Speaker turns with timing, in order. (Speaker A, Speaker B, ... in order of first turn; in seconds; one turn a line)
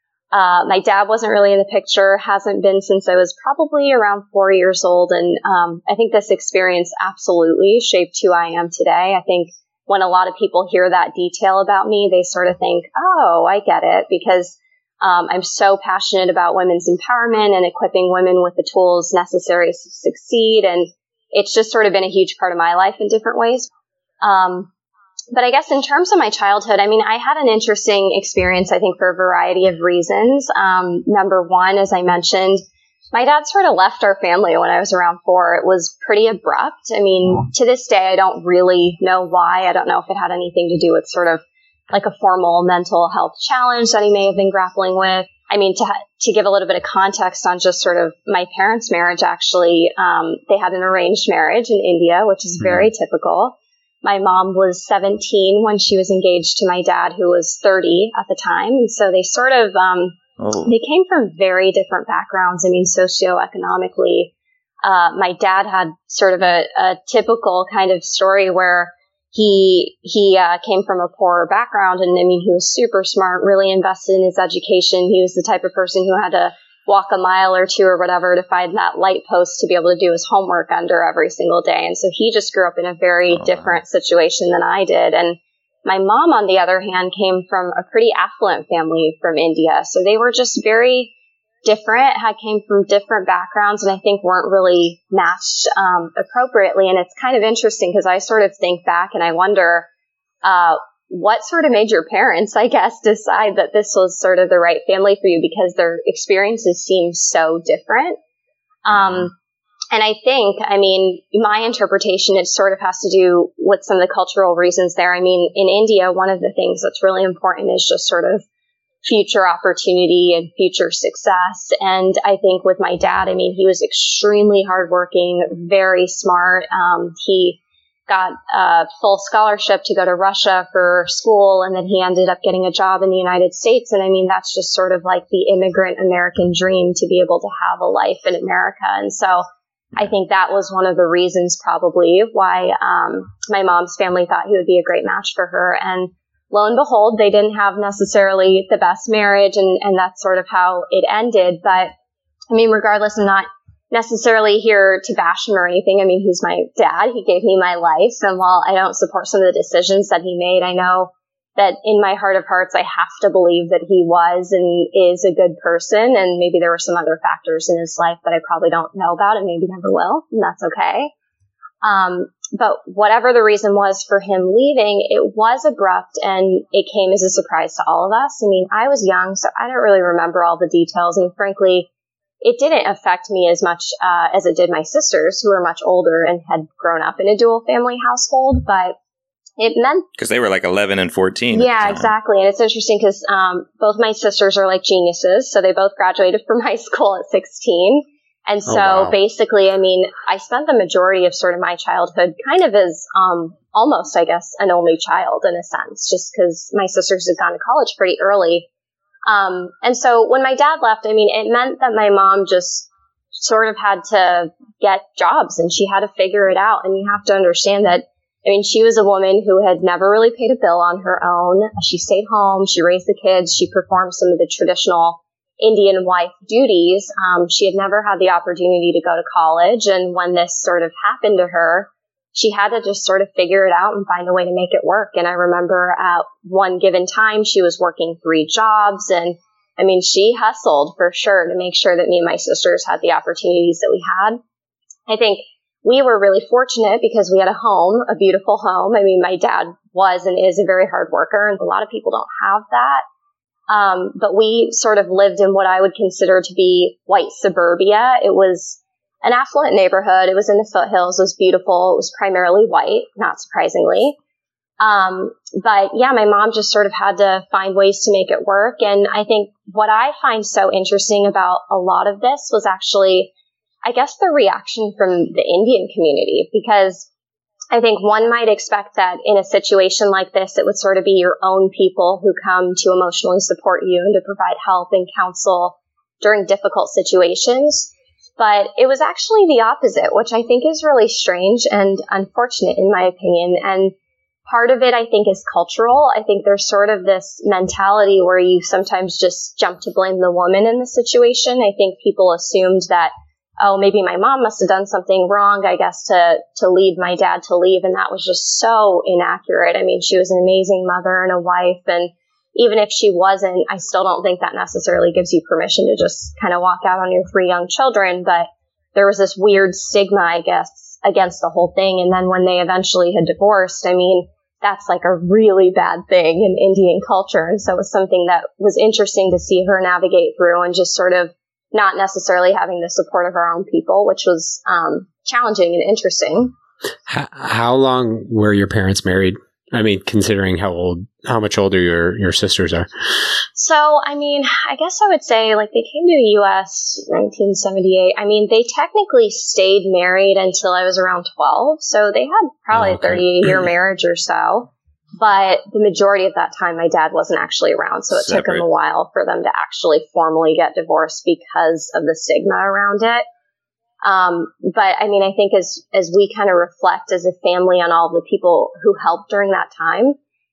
Speaker A: 0.3-23.7
Speaker A: 24.2-24.7
Speaker A: 25.3-64.3
Speaker B: 60.4-60.7
Speaker A: 64.8-91.1
Speaker B: 83.3-83.8
Speaker A: 91.7-99.9
Speaker A: 100.4-108.2
Speaker A: 108.8-109.3
Speaker A: 109.9-118.5
Speaker A: 119.0-139.4
Speaker A: 140.0-151.9
Speaker A: 152.5-171.1
Speaker A: 171.8-181.9
Speaker A: 182.4-189.0
Speaker A: 189.6-190.1
Speaker B: 190.2-192.1
Speaker A: 191.5-208.7
Speaker C: 198.7-199.2
Speaker A: 209.3-244.4
Speaker A: 245.1-253.0
Speaker A: 253.7-264.2
Speaker A: 264.8-273.3
Speaker A: 273.8-277.1
Speaker A: 277.7-293.9
Speaker A: 294.5-336.6
Speaker C: 337.1-343.3
Speaker A: 343.6-363.2
Speaker C: 352.7-353.6
Speaker B: 358.1-358.6
Speaker A: 364.0-370.2